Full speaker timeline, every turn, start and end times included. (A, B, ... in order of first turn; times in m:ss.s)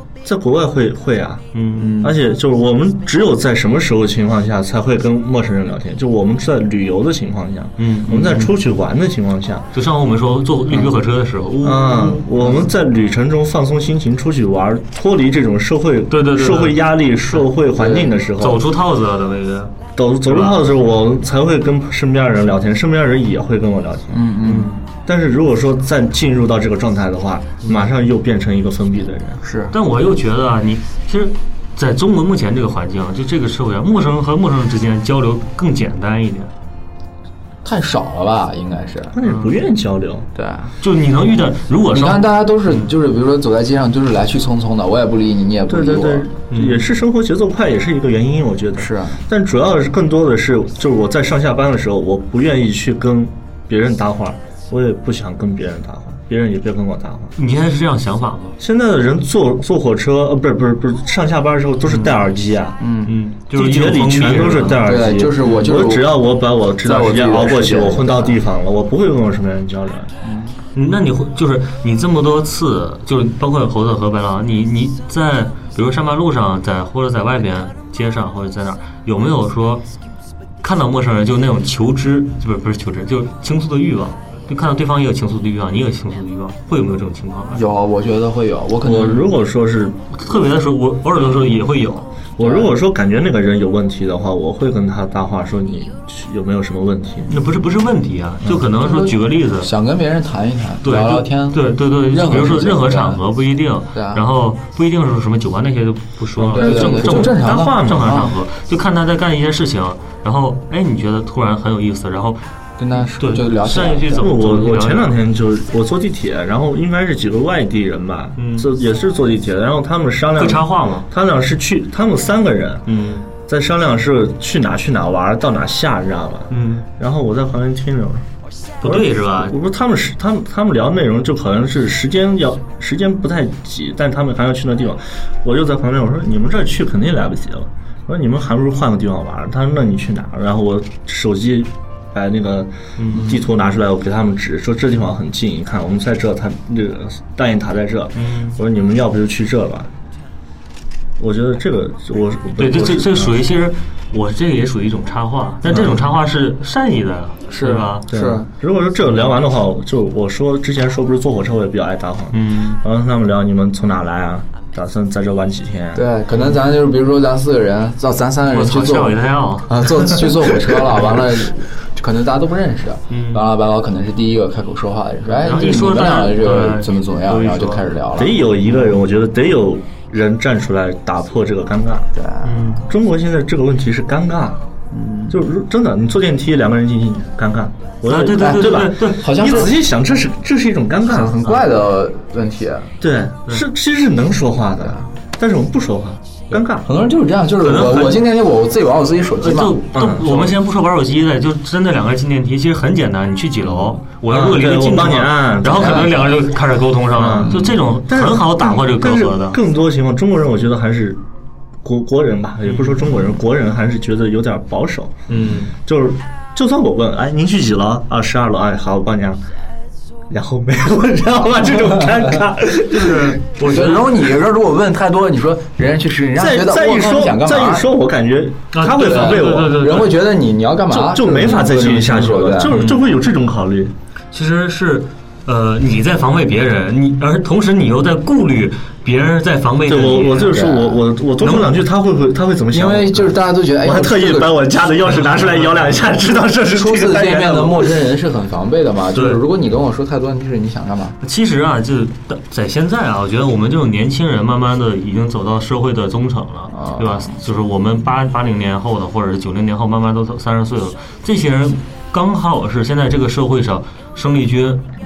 0:00.2-0:01.4 A
0:01.5-0:02.0 B
0:01.8-0:02.2 C
0:02.0-0:09.7 A
0:07.8-0:08.5 B
0:09.7-0:12.3 B
0:11.6-0:18.6 A
0:16.1-0:16.9 B
0:17.8-0:18.1 C
0:18.4-0:20.6 B
0:20.0-0:29.4 A
0:24.1-0:24.7 C
0:24.5-0:24.7 B
0:29.4-0:29.8 C
0:29.7-0:36.5 B
0:37.6-0:39.2 C
0:39.1-0:40.3 A
0:39.2-0:39.5 B
0:40.4-0:40.8 C
0:40.8-0:42.9 B
0:41.9-0:46.3 C
0:45.7-0:57.4 A
0:46.5-0:46.8 B
0:48.8-0:49.2 C
0:57.4-0:58.6 B
0:58.6-1:02.8 A
1:01.9-1:02.2 B
1:02.8-1:03.2 C
1:03.0-1:04.8 B
1:03.5-1:10.1 A
1:04.8-1:06.2 C
1:06.8-1:08.4 C
1:10.2-1:10.6 C
1:10.7-1:19.8 B
1:20.6-1:27.6 B
1:27.5-1:29.3 C
1:28.8-1:30.1 A
1:30.1-1:32.1 B
1:32.4-1:37.3 A
1:32.4-1:32.8 C
1:37.3-1:39.7 B
1:38.8-1:43.2 C
1:40.8-1:52.4 B
1:43.9-1:44.2 C
1:46.4-1:48.3 C
1:46.5-1:48.3 A
1:52.8-1:54.3 C
1:53.0-1:55.2 B
1:54.1-2:02.9 A
1:58.4-1:58.7 B
2:00.4-2:01.1 B
2:02.9-2:03.3 B
2:03.5-2:08.2 A
2:06.5-2:06.9 B
2:08.8-2:09.6 B
2:08.8-2:29.9 A
2:23.0-2:23.3 B
2:28.2-2:28.6 B
2:31.2-2:33.4 A
2:32.6-2:38.1 B
2:35.7-2:36.1 A
2:37.5-2:38.5 C
2:38.1-2:46.1 A
2:42.3-2:42.8 B
2:45.9-2:58.4 C
2:48.4-2:50.0 B
2:53.1-2:53.4 B
2:55.4-2:57.9 B
2:58.2-3:02.1 A
3:02.1-3:02.8 C
3:02.4-3:02.9 B
3:02.8-3:04.6 A
3:04.9-3:05.5 C
3:05.3-3:11.4 A
3:08.1-3:09.6 B
3:08.3-3:09.8 C
3:11.0-3:12.9 C
3:13.0-3:16.9 A
3:14.8-3:15.1 C
3:16.5-3:19.8 C
3:17.6-3:18.3 B
3:19.4-3:29.6 B
3:19.9-3:20.5 A
3:24.3-3:26.3 A
3:25.8-3:26.3 C
3:27.2-3:31.2 A
3:27.4-3:27.7 C
3:31.8-3:39.4 A
3:32.6-3:33.1 B
3:35.3-3:35.7 B
3:40.3-3:43.4 A
3:42.9-3:44.2 B
3:43.6-3:47.9 C
3:46.4-3:50.1 A
3:48.7-3:50.1 B
3:49.0-3:52.9 C
3:50.9-3:53.9 A
3:52.7-3:53.0 B
3:54.3-4:00.6 B
3:59.9-4:08.0 A
4:00.4-4:01.0 C
4:01.4-4:01.8 B
4:02.7-4:04.6 C
4:06.7-4:11.2 C
4:09.1-4:09.4 B
4:11.2-4:24.9 B
4:16.7-4:17.4 C